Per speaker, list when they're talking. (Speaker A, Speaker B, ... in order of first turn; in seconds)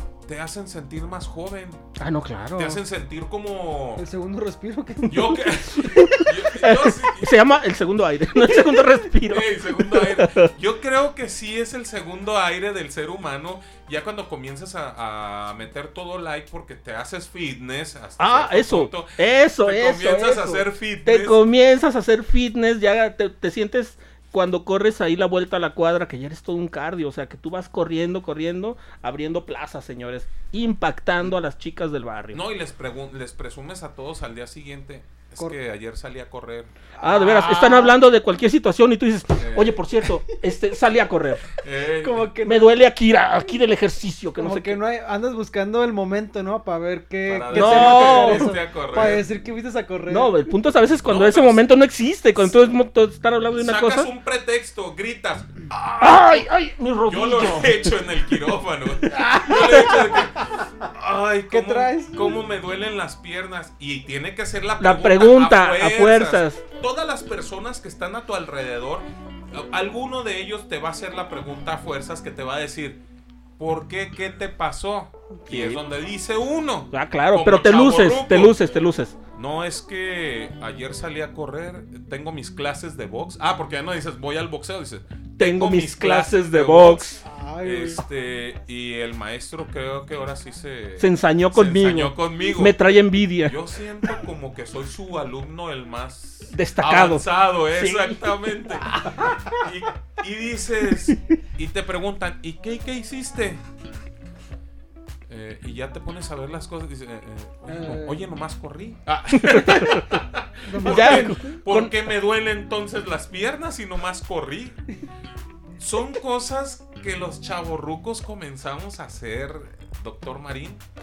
Speaker A: 0.2-1.8, 2.5-4.0, 5.1-7.4, 9.2-21.4, 32.3-36.7, 39.4-39.8, 41.6-42.3, 47.3-49.2, 51.0-51.7, 53.5-56.4, 57.1-73.0, 73.6-78.6, 79.3-92.8, 93.4-103.6, 105.3-114.8, 115.8-120.8
Speaker B: 2.0-2.8, 5.1-10.5, 18.2-32.4, 37.0-41.5, 42.4-44.8, 47.5-48.5, 50.1-54.1, 56.0-58.0, 59.1-60.2, 64.8-66.6, 75.5-75.8, 76.9-79.2, 85.4-87.2, 91.0-93.6, 96.5-98.7, 109.3-110.2, 110.8-111.9
Speaker C: 4.0-6.0, 37.0-37.9, 42.0-42.8, 44.4-50.5, 59.1-59.9, 61.5-62.2, 87.2-88.0, 99.0-99.5, 107.7-108.2, 110.6-111.6